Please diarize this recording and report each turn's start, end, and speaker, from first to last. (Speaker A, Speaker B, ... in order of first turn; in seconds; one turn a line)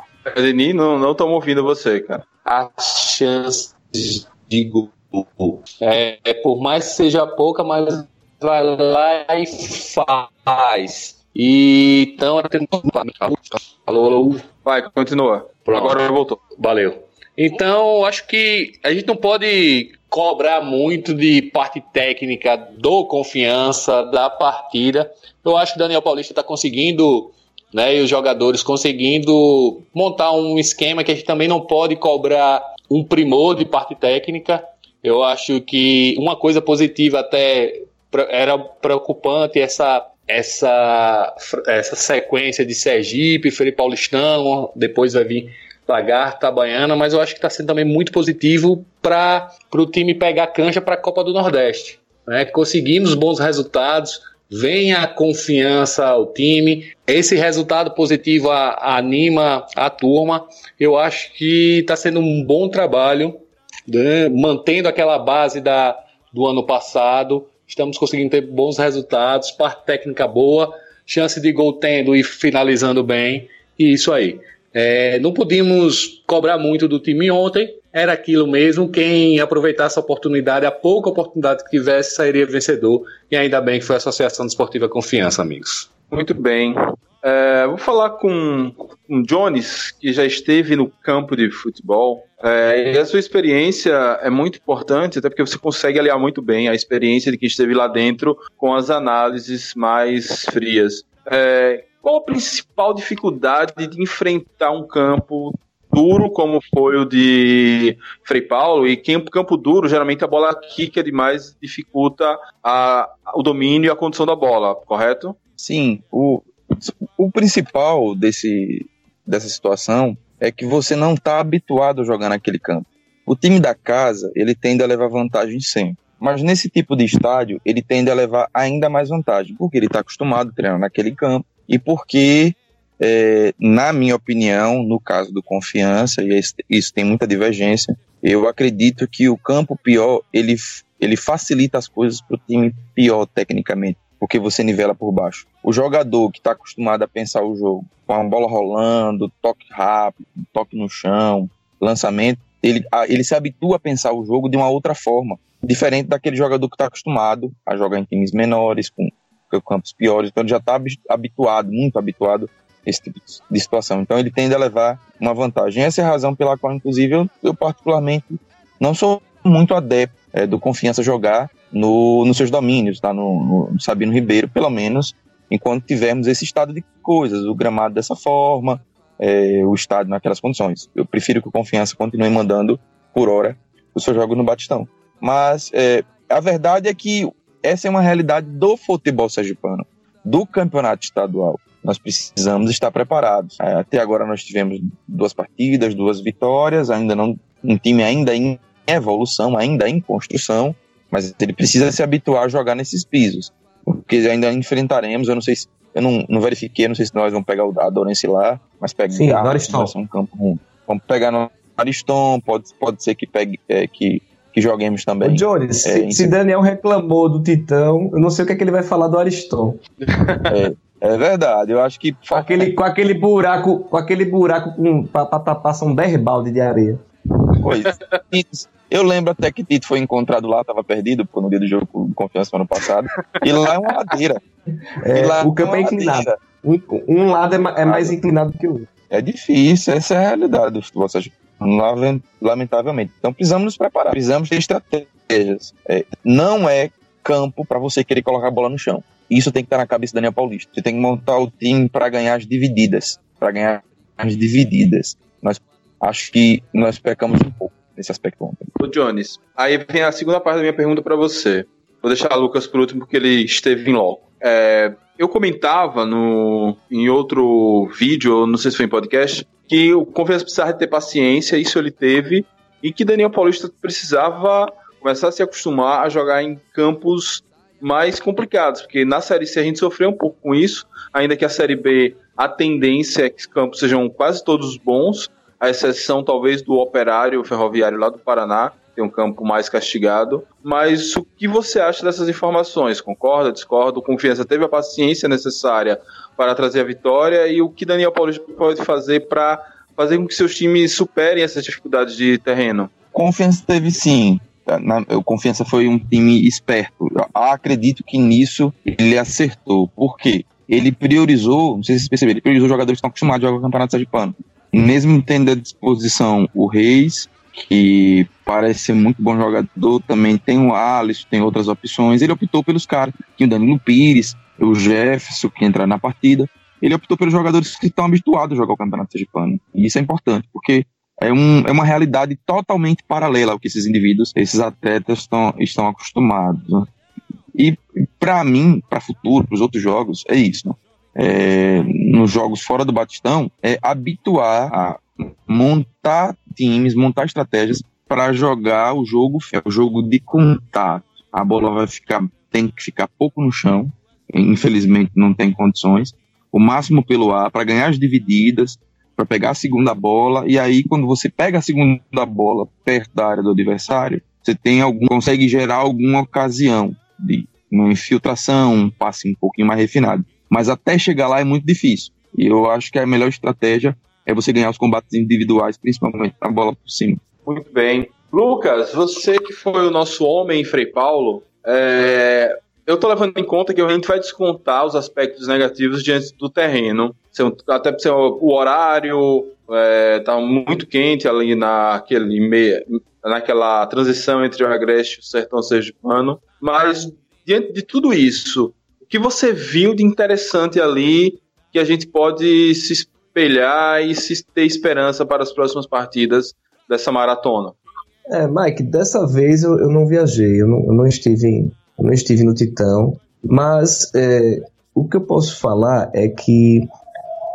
Speaker A: 0.2-2.2
Speaker B: 2.4-14.4
Speaker A: 14.6-16.4
Speaker B: 15.7-16.0
Speaker B: 16.5-63.4
Speaker B: 63.9-85.9
Speaker A: 86.1-115.4
Speaker C: 115.6-216.3
Speaker D: 209.1-209.9
Speaker D: 215.2-219.8
Speaker A: 220.1-220.5
Speaker C: 220.5-222.7
Speaker D: 222.3-227.0
Speaker C: 227.6-234.4
Speaker D: 235.0-238.9
Speaker C: 235.1-236.3
Speaker C: 237.8-238.1
Speaker C: 239.1-258.7
Speaker A: 258.8-302.9
Speaker C: 303.1-336.9
Speaker C: 337.6-377.2
Speaker A: 377.4-407.8
Speaker D: 408.3-416.9